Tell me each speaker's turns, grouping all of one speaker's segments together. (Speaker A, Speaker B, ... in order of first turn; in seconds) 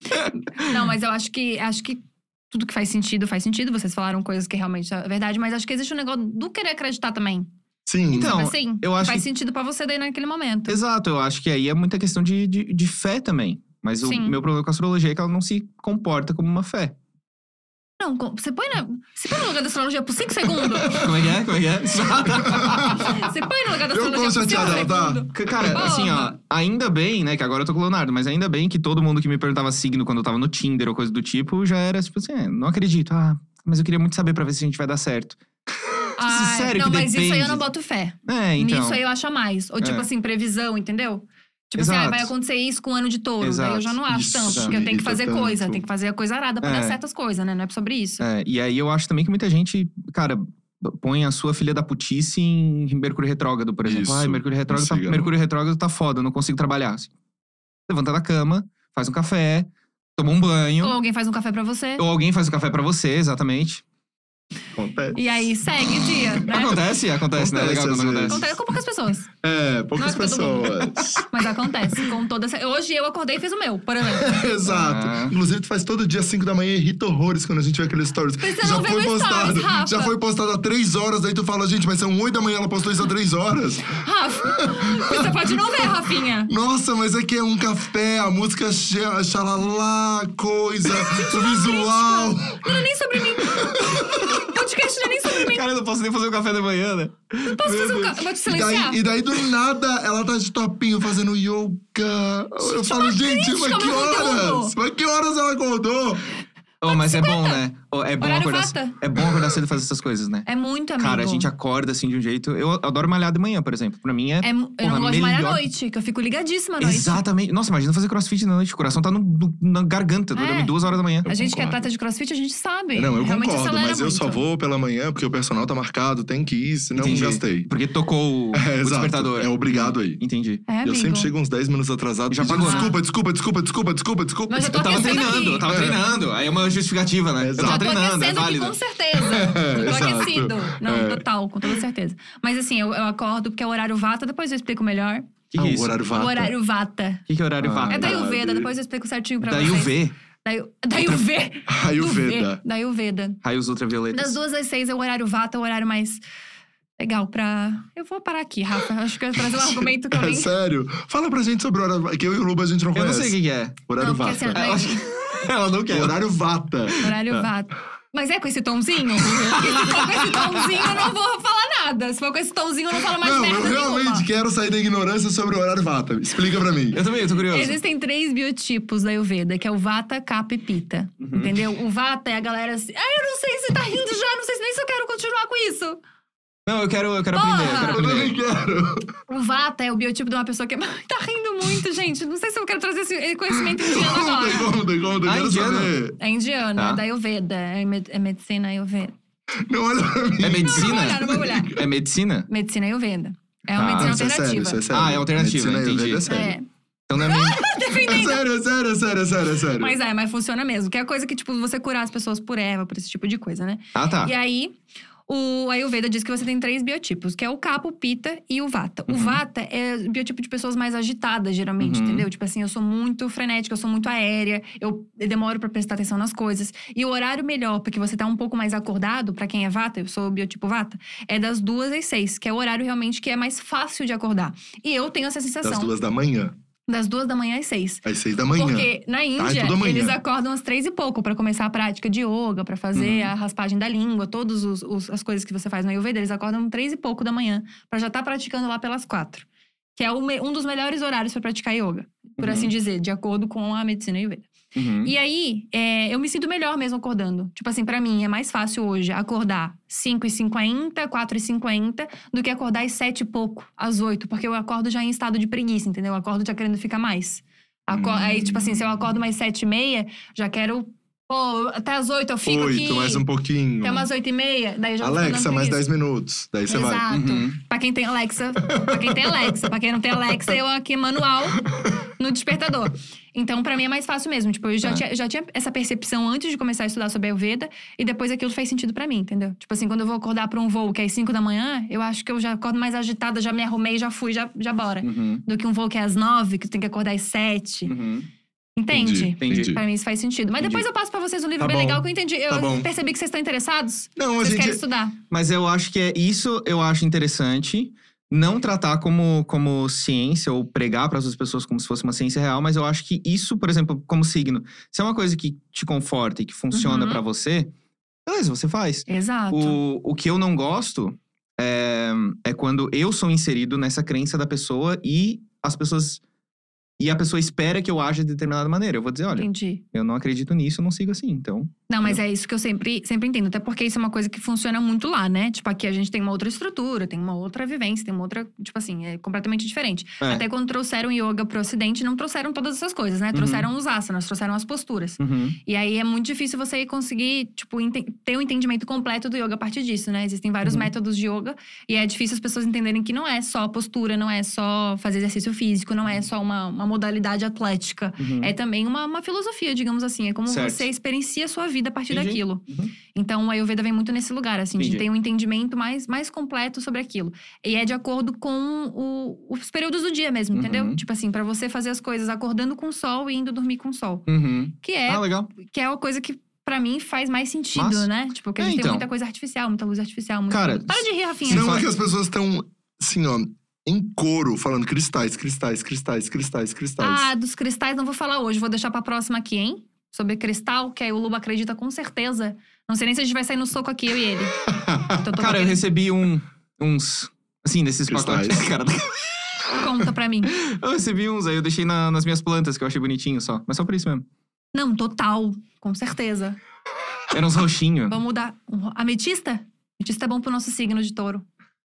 Speaker A: 0.6-7.5, 8.2-10.8, 14.0-14.4, 18.0-21.1, 22.8-26.4, 36.2-48.2, 60.8-62.0, 65.1-66.8, 68.3-69.3, 70.0-74.3, 78.4-80.1, 84.0-86.5, 90.9-95.6, 97.4-99.0, 102.6-104.7, 106.8-107.6, 108.2-109.0, 110.5-111.5, 114.4-117.2, 120.3-124.4, 130.7-131.3, 132.5-132.9, 134.5-135.7, 137.6-145.4, 146.1-147.2, 147.9-153.4, 154.1-156.2, 157.0-160.5, 164.0-165.1, 167.0-174.2, 177.5-186.0, 187.3-188.0, 189.3-194.7, 196.2-199.1, 200.6-201.8, 202.5-204.8, 206.3-206.6, 207.2-208.4, 209.8-214.7, 215.3-235.9, 236.9-254.5, 255.0-273.2, 273.8-275.8, 276.7-281.6, 282.2-297.9, 298.8-305.1, 316.7-317.2, 319.1-319.8, 329.3-329.8, 331.9-374.3, 374.8-381.8, 387.0-394.5, 395.1-395.8, 399.7-400.5, 404.7-406.6, 408.1-411.4
Speaker B: 7.8-8.4, 22.4-22.9, 23.9-25.8, 44.1-45.8, 53.8-55.3, 64.7-65.5, 67.3-68.5, 69.4-71.3, 74.1-85.9, 86.5-92.9, 93.5-94.2, 98.5-106.3, 121.2-121.8, 122.9-127.7, 128.5-130.2, 130.8-135.1, 135.6-136.0, 137.4-137.9, 139.2-141.2, 145.6-146.5, 147.6-148.7, 151.7-152.6, 159.5-164.8, 165.9-167.0, 173.2-177.0, 187.9-189.1, 193.7-196.2, 199.6-201.8, 203.9-206.6, 207.9-210.0, 235.6-236.5, 238.0-240.2, 267.9-269.0, 272.4-274.1, 275.0-277.0, 278.7-279.4, 298.9-299.8, 301.6-302.9, 304.1-304.8, 381.5-387.3, 398.1-398.6
Speaker C: 8.1-9.2, 10.7-16.9, 20.9-23.2, 24.6-35.4, 36.2-37.6, 38.2-39.0, 39.8-40.1, 41.8-42.3, 43.4-44.8, 46.6-47.0, 48.2-57.1, 57.9-61.0, 62.0-63.8, 66.5-68.4, 74.6-75.3, 95.3-98.2, 106.8-110.5, 111.0-115.6, 116.8-121.3, 127.0-130.6, 132.3-132.9, 134.7-138.8, 145.5-146.1, 147.3-148.2, 149.4-150.2, 153.4-154.4, 162.9-163.8, 164.5-166.2, 166.9-167.5, 169.3-170.9, 176.9-177.8, 181.2-181.5, 186.7-188.3, 195.2-196.0, 196.8-197.0, 200.4-202.5, 203.8-204.2, 204.9-206.2, 207.1-207.6, 213.9-214.3, 219.1-219.4, 221.8-222.3, 242.9-243.3, 252.4-252.7, 254.7-255.1, 277.1-277.6, 295.0-295.4, 297.9-298.3, 299.4-299.8, 305.3-317.7, 318.2-326.2, 327.0-332.2, 343.3-343.7, 345.2-345.6, 350.6-350.9, 358.2-358.5, 360.5-360.9, 362.1-362.9, 364.8-365.1, 370.5-371.0, 374.3-375.5, 377.7-379.1, 380.5-381.9, 395.3-399.8, 400.5-404.2, 407.3-408.2